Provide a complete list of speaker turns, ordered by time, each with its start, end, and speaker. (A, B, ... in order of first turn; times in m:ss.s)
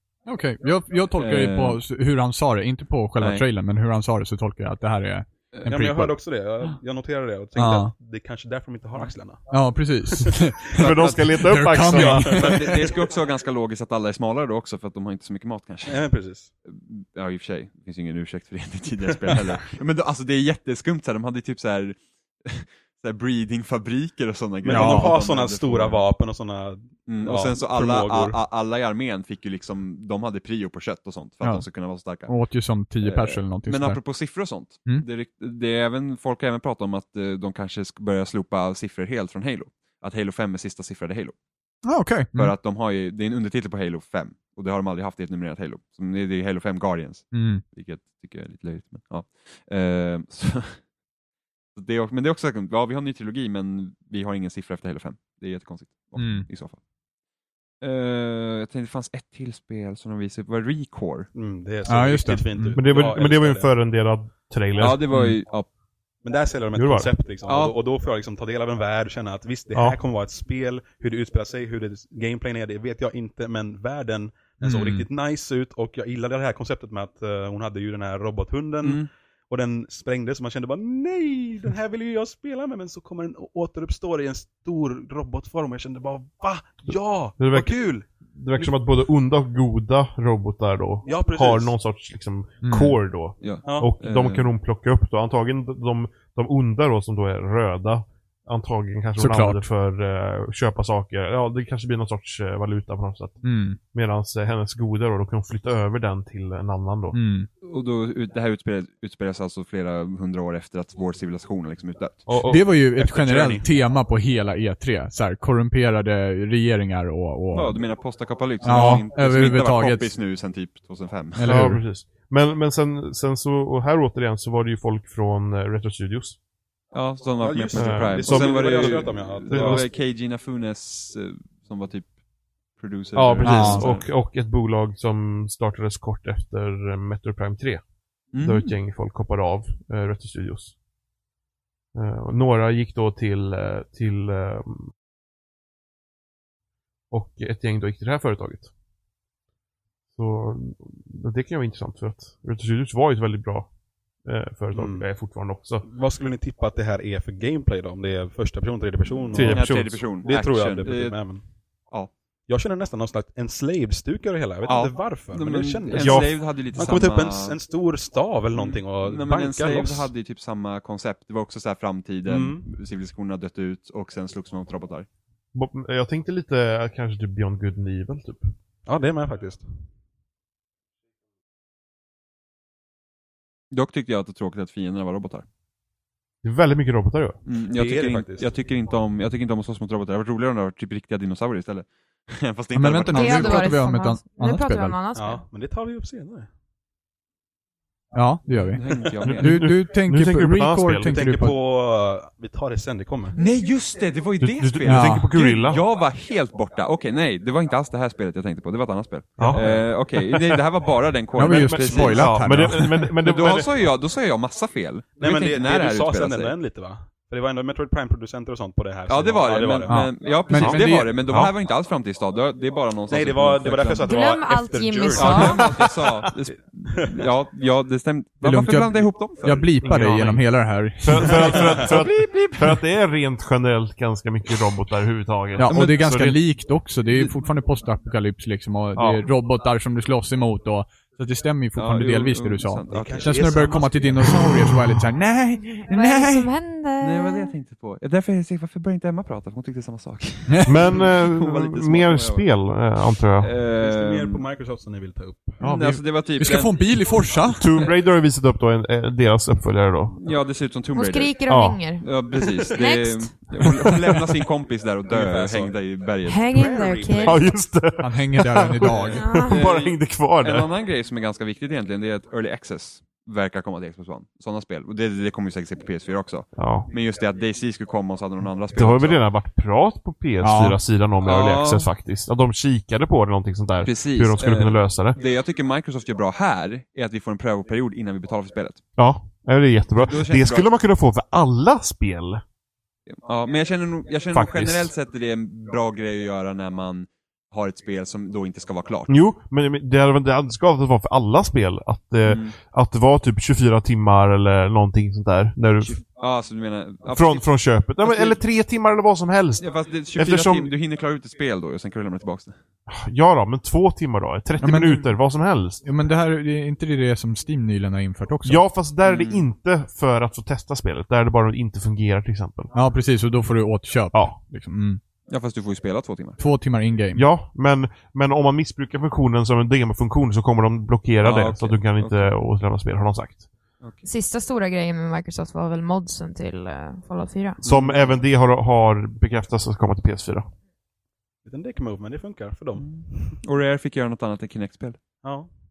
0:00.2-0:06.2 A
0:01.2-0:01.8 B
0:03.2-0:03.4 B
0:05.7-0:09.5 C
0:07.6-0:07.9 A
0:09.5-0:12.7 A
0:10.7-0:12.4 D
0:10.8-0:11.2 B
0:11.9-0:12.9 C
0:11.9-0:16.0 B
0:15.8-0:16.5 C
0:16.6-0:26.0 B
0:24.6-0:28.4 C
0:24.7-0:25.1 A
0:27.0-0:32.3 B
0:31.4-0:31.7 A
0:32.2-0:34.0 A
0:33.0-0:41.3 B
0:41.8-0:42.5 A
0:42.3-0:50.8 B
0:47.3-0:47.6 A
0:51.7-0:56.8 B
0:56.2-0:56.5 A
0:57.8-1:01.3 B
1:01.3-1:03.7 C
1:01.8-1:02.8 A
1:02.7-1:05.0 D
1:04.8-1:05.7 B
1:05.1-1:05.4 A
1:06.2-1:28.7 C
1:06.7-1:07.1 D
1:07.4-1:07.7 B
1:09.7-1:10.0 D
1:14.6-1:15.0 A
1:18.8-1:19.1 B
1:27.4-1:43.4 D
1:31.0-1:31.7 C
1:32.6-1:33.0 A
1:33.4-1:34.5 B
1:33.6-1:33.9 C
1:39.2-1:39.6 A
1:43.4-1:43.8 A
1:43.9-1:47.2 D
1:47.1-1:47.5 A
1:47.6-1:52.3 B
1:52.3-1:52.6 D
1:52.5-1:57.8 A
1:52.7-1:53.6 C
1:57.5-2:01.6 B
1:58.6-2:00.1 A
1:58.7-1:59.0 D
2:01.3-2:01.8 A
2:01.4-2:06.4 D
2:06.9-2:12.1 B
2:07.4-2:09.9 C
2:07.7-2:09.8 D
2:12.8-2:14.0 B
2:13.1-2:17.8 D
2:13.4-2:13.8 A
2:18.3-2:18.7 B
2:18.4-2:20.7 D
2:21.9-2:24.9 D
2:27.1-2:28.7 D
2:30.1-2:33.7 D
2:34.2-2:35.8 D
2:34.7-2:35.0 C
2:35.8-2:41.4 C
2:39.3-2:40.0 D
2:39.4-2:42.1 B
2:42.5-2:50.1 C
2:44.6-2:47.6 B
2:45.9-2:46.3 D
2:48.5-2:55.1 B
2:52.2-2:52.7 C
2:55.5-2:58.5 D
2:58.8-2:59.6 C
3:03.7-3:05.4 B
3:06.4-3:07.4 D
3:07.4-3:13.7 B
3:07.7-3:08.5 C
3:12.7-3:15.0 A
3:13.1-3:15.4 E
3:15.1-3:16.5 C
3:18.1-3:21.6 A
3:18.7-3:19.8 B
3:19.2-3:21.1 D
3:21.1-3:23.4 C
3:23.3-3:36.6 B
3:24.4-3:25.8 D
3:24.8-3:25.3 A
3:29.4-3:30.4 D
3:29.4-3:29.8 C
3:31.4-3:33.1 A
3:32.0-3:33.7 D
3:35.2-3:40.0 C
3:39.1-3:44.1 B
3:39.9-3:41.3 A
3:40.5-3:41.5 D
3:43.1-3:45.9 C
3:44.0-3:45.8 E
3:45.1-3:49.8 B
3:46.9-3:47.2 C
3:48.4-3:51.7 A
3:49.8-3:56.4 D
3:51.4-3:51.9 C
3:51.4-3:52.8 B
3:55.6-4:06.5 A
3:59.0-3:59.2 D
4:01.7-4:03.5 B
4:02.9-4:04.4 C
4:05.8-4:07.5 E
4:07.0-4:12.5 B
4:10.5-4:10.8 A
4:10.6-4:13.5 D
4:13.4-4:14.4 B
4:13.8-4:15.6 C
4:15.6-4:17.1 B
4:15.6-4:17.8 A
4:17.5-4:20.1 D
4:20.2-4:21.3 B
4:20.9-4:23.3 E
4:21.5-4:21.8 D
4:22.0-4:26.8 B
4:25.1-4:25.8 C
4:26.2-4:27.4 E
4:26.5-4:27.4 C
4:27.2-4:30.7 D
4:28.0-4:29.2 A
4:28.8-4:39.2 B
4:29.1-4:29.7 E
4:36.6-4:36.9 D
4:38.7-4:45.2 D
4:40.4-4:40.8 A
4:41.2-4:41.9 B
4:43.8-4:48.8 B
4:49.0-4:52.4 D
4:50.0-4:50.7 B
4:53.1-4:59.2 B
4:54.3-4:54.9 D
4:59.1-5:06.0 D
5:02.2-5:02.6 B
5:05.8-5:08.4 B
5:07.1-5:10.7 D
5:09.6-5:12.6 B
5:12.9-5:15.8 D
5:14.6-5:15.1 A
5:15.8-5:18.6 A
5:18.4-5:22.7 D
5:19.0-5:19.4 B
5:22.7-5:25.0 A
5:25.3-5:26.4 B
5:26.4-5:27.2 A
5:27.1-5:33.4 D
5:31.2-5:32.3 B
5:33.8-5:34.0 B
5:34.0-5:37.6 E
5:37.6-5:40.4 D
5:37.6-5:38.2 B
5:41.4-5:43.4 C
5:42.8-5:45.0 B
5:45.2-5:45.5 C